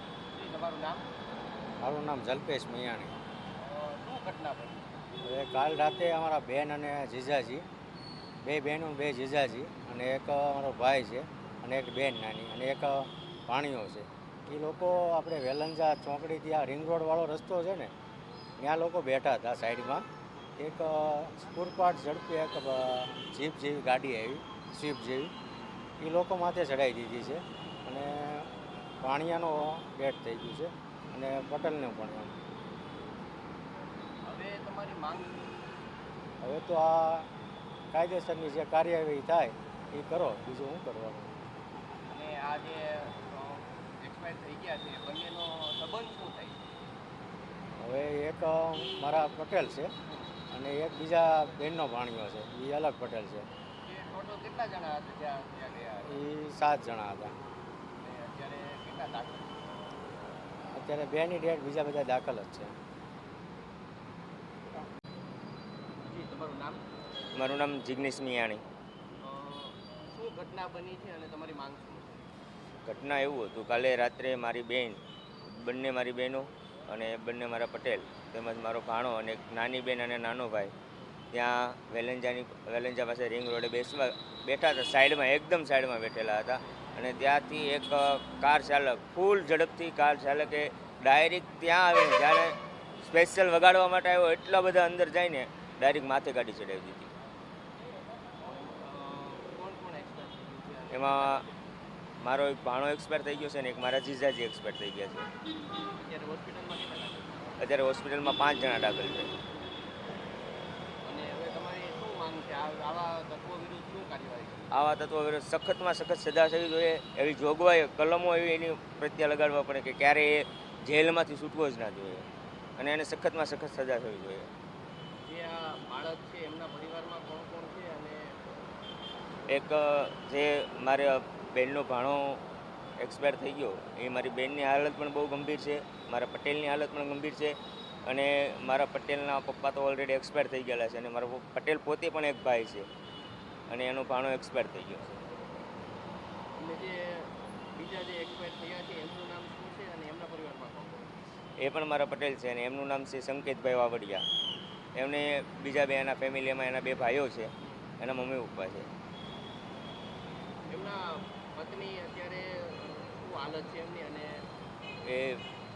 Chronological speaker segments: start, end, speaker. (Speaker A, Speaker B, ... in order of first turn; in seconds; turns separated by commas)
Speaker A: 0.3-1.1, Speaker B: 1.8-3.1, Speaker A: 3.6-4.9, Speaker B: 5.2-7.6, Speaker B: 8.4-17.9, Speaker B: 18.6-20.1, Speaker B: 20.6-25.3, Speaker B: 26.0-28.5, Speaker B: 29.0-32.3, Speaker A: 34.2-35.6, Speaker B: 36.4-37.3, Speaker B: 37.9-41.3, Speaker A: 42.1-46.6, Speaker B: 47.8-49.9, Speaker A: 50.1-50.4, Speaker B: 50.5-53.5, Speaker A: 53.8-56.2, Speaker B: 56.0-57.4, Speaker A: 58.0-59.7, Speaker B: 60.7-62.8, Speaker A: 66.1-66.8, Speaker C: 67.3-68.6, Speaker A: 69.2-72.2, Speaker C: 72.8-80.7, Speaker C: 81.3-97.1, Speaker A: 98.4-101.5, Speaker C: 100.9-101.4, Speaker C: 102.2-105.3, Speaker A: 106.0-107.5, Speaker C: 107.6-109.3, Speaker A: 111.0-114.7, Speaker C: 114.7-122.3, Speaker C: 122.8-124.5, Speaker A: 125.2-128.4, Speaker C: 129.5-132.4, Speaker C: 133.0-142.9, Speaker C: 143.7-145.2, Speaker A: 146.6-151.1, Speaker C: 151.6-154.2, Speaker C: 154.9-158.9, Speaker A: 157.6-157.9, Speaker A: 160.7-161.0, Speaker A: 161.6-164.3, Speaker C: 165.0-165.4